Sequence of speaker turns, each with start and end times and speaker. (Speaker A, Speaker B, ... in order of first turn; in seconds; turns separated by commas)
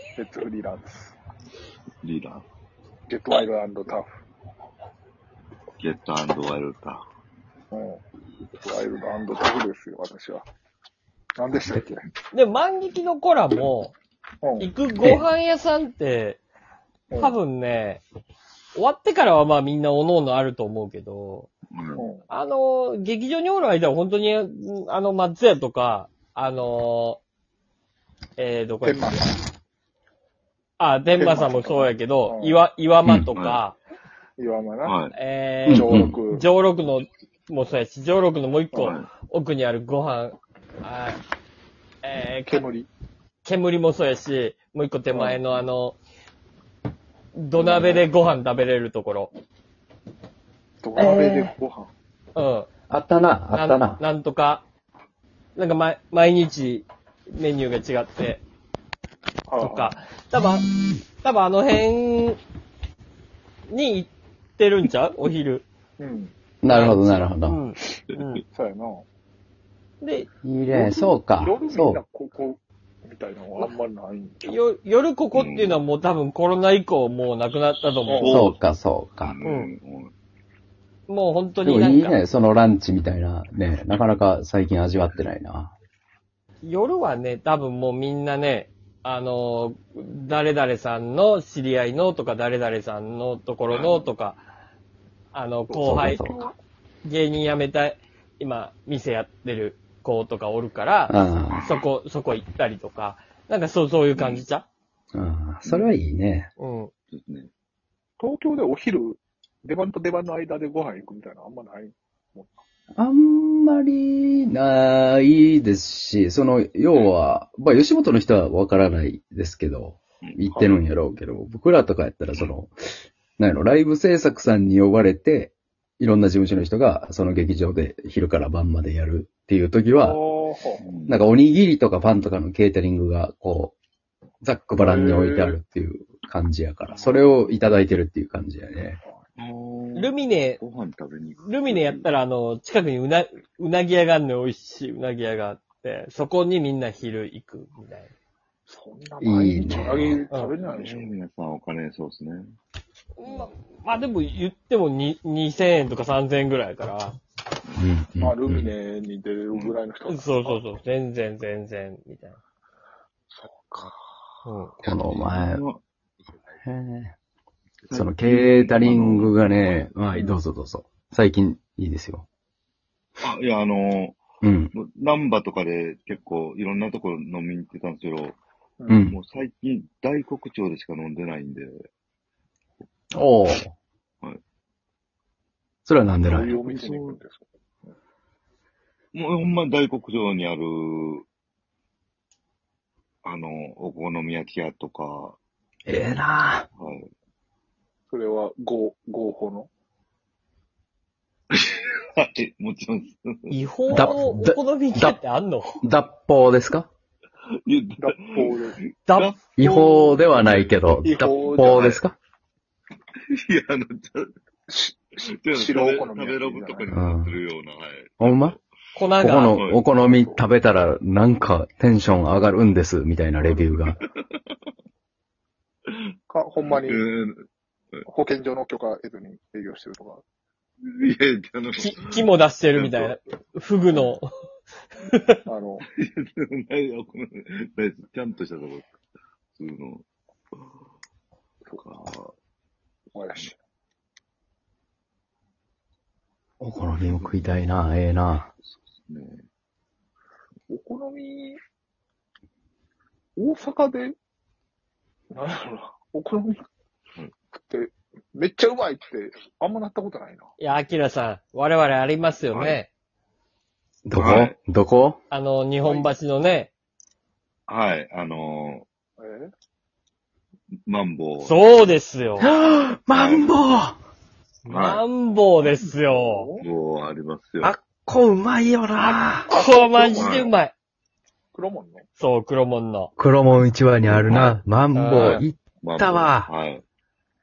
Speaker A: 0.1-1.1, Speaker B: 2.0-2.4, Speaker A: 3.1-4.1, Speaker B: 5.8-7.0, Speaker A: 7.7-8.0, Speaker A: 8.6-10.4, Speaker A: 11.4-12.0, Speaker C: 12.3-13.9, Speaker A: 14.4-14.7, Speaker C: 14.6-16.4, Speaker A: 17.1-17.4, Speaker C: 17.2-18.0, Speaker C: 18.7-21.5, Speaker B: 21.7-22.1, Speaker A: 21.9-22.2, Speaker C: 22.3-27.2, Speaker C: 28.4-29.2, Speaker A: 28.8-29.4, Speaker C: 30.8-33.8, Speaker A: 31.1-32.6, Speaker D: 33.0-33.3, Speaker B: 33.3-33.6, Speaker A: 34.4-35.0, Speaker B: 34.8-35.1, Speaker C: 35.1-41.2, Speaker A: 35.6-36.5, Speaker D: 35.7-36.2, Speaker B: 38.8-39.1, Speaker C: 42.0-42.6, Speaker A: 42.4-42.9, Speaker C: 43.4-46.0, Speaker A: 45.1-45.4, Speaker C: 47.3-49.3, Speaker A: 47.5-48.1, Speaker A: 50.8-51.9, Speaker D: 51.0-51.5, Speaker C: 52.3-52.7, Speaker D: 52.9-54.0, Speaker C: 53.5-54.6, Speaker C: 55.5-58.4, Speaker A: 59.5-60.0, Speaker C: 59.6-62.4, Speaker C: 63.7-65.6, Speaker A: 66.0-66.3, Speaker D: 66.6-67.6, Speaker C: 66.7-68.4, Speaker B: 68.1-68.4, Speaker A: 68.5-69.0, Speaker C: 70.0-70.3, Speaker D: 70.4-72.0, Speaker A: 70.7-74.6, Speaker C: 74.4-78.3, Speaker B: 75.3-75.8, Speaker A: 78.0-78.4, Speaker B: 78.1-78.6, Speaker D: 78.3-79.4, Speaker B: 79.2-80.1, Speaker C: 79.4-79.7, Speaker C: 81.1-82.2, Speaker D: 81.6-85.7, Speaker C: 86.6-94.4, Speaker B: 93.7-94.1, Speaker C: 95.3-96.3, Speaker A: 95.7-96.5, Speaker D: 95.8-96.4, Speaker C: 97.0-104.7, Speaker D: 101.1-101.8, Speaker B: 101.5-101.8, Speaker B: 104.1-104.4, Speaker D: 105.1-106.5, Speaker B: 105.6-105.9, Speaker C: 106.6-106.9, Speaker B: 107.1-107.5, Speaker A: 108.2-112.6, Speaker D: 113.0-122.7, Speaker B: 120.2-120.6, Speaker A: 120.5-120.8, Speaker D: 123.4-130.2, Speaker A: 130.0-130.8, Speaker B: 130.8-131.2, Speaker D: 131.1-133.8, Speaker D: 134.4-139.0, Speaker A: 134.8-135.6, Speaker B: 136.9-137.2, Speaker B: 139.4-142.1, Speaker C: 139.9-140.6, Speaker C: 141.4-148.1, Speaker A: 148.7-151.2, Speaker D: 149.2-150.2, Speaker B: 150.5-152.5, Speaker C: 153.2-157.2, Speaker D: 157.8-158.7, Speaker A: 158.2-160.6, Speaker C: 160.1-162.4, Speaker C: 164.4-164.8, Speaker D: 164.8-165.6, Speaker B: 164.8-165.8, Speaker D: 166.6-167.1, Speaker B: 167.8-169.4, Speaker D: 167.9-172.2, Speaker B: 173.2-174.2, Speaker D: 174.4-174.7, Speaker B: 174.7-178.4, Speaker D: 178.9-179.2, Speaker B: 179.1-181.8, Speaker D: 183.1-183.7, Speaker D: 185.8-186.6, Speaker A: 186.2-187.4, Speaker B: 186.3-187.2, Speaker B: 189.1-191.2, Speaker B: 193.2-195.4, Speaker D: 195.9-196.7, Speaker B: 196.8-197.1, Speaker A: 198.1-199.7, Speaker B: 201.5-203.5, Speaker C: 203.5-205.8, Speaker D: 203.9-205.2, Speaker D: 205.8-206.9, Speaker B: 207.6-209.5, Speaker A: 208.0-208.8, Speaker C: 209.1-209.9, Speaker D: 209.6-212.2, Speaker B: 210.3-210.9, Speaker A: 211.0-212.0, Speaker B: 211.6-212.0, Speaker B: 213.3-214.3, Speaker A: 214.7-216.9, Speaker B: 215.2-218.6, Speaker D: 216.9-217.4, Speaker D: 218.2-218.6, Speaker C: 218.9-219.6, Speaker D: 219.1-224.0, Speaker B: 219.5-219.8, Speaker A: 220.1-220.4, Speaker A: 226.3-227.0, Speaker B: 226.6-228.0, Speaker A: 228.1-230.2, Speaker B: 230.9-232.2, Speaker C: 231.8-234.3, Speaker B: 232.7-233.1, Speaker C: 235.0-235.4, Speaker A: 235.4-235.8, Speaker B: 235.9-238.9, Speaker B: 239.5-240.0, Speaker B: 241.7-242.3, Speaker A: 243.1-243.5, Speaker D: 246.6-248.5, Speaker B: 247.0-247.4, Speaker B: 248.6-249.4, Speaker A: 250.7-251.6, Speaker A: 253.3-254.1, Speaker A: 255.3-256.6, Speaker A: 257.5-260.5, Speaker C: 260.6-262.9, Speaker B: 262.5-262.8, Speaker D: 264.1-265.2, Speaker B: 264.1-264.5, Speaker C: 265.3-266.7, Speaker A: 265.8-266.1, Speaker B: 267.7-268.9, Speaker A: 269.2-269.5, Speaker B: 270.8-271.9, Speaker C: 271.4-272.5, Speaker D: 272.4-274.0, Speaker B: 273.1-273.6, Speaker C: 274.6-276.5, Speaker B: 274.7-275.1, Speaker A: 275.6-276.7, Speaker B: 276.6-277.8, Speaker D: 277.6-279.5, Speaker C: 279.1-280.7, Speaker A: 279.3-280.6, Speaker B: 280.1-280.5, Speaker A: 281.5-282.1, Speaker C: 282.2-283.1, Speaker D: 283.2-286.5, Speaker B: 284.1-284.6, Speaker C: 284.9-285.4, Speaker B: 285.8-286.8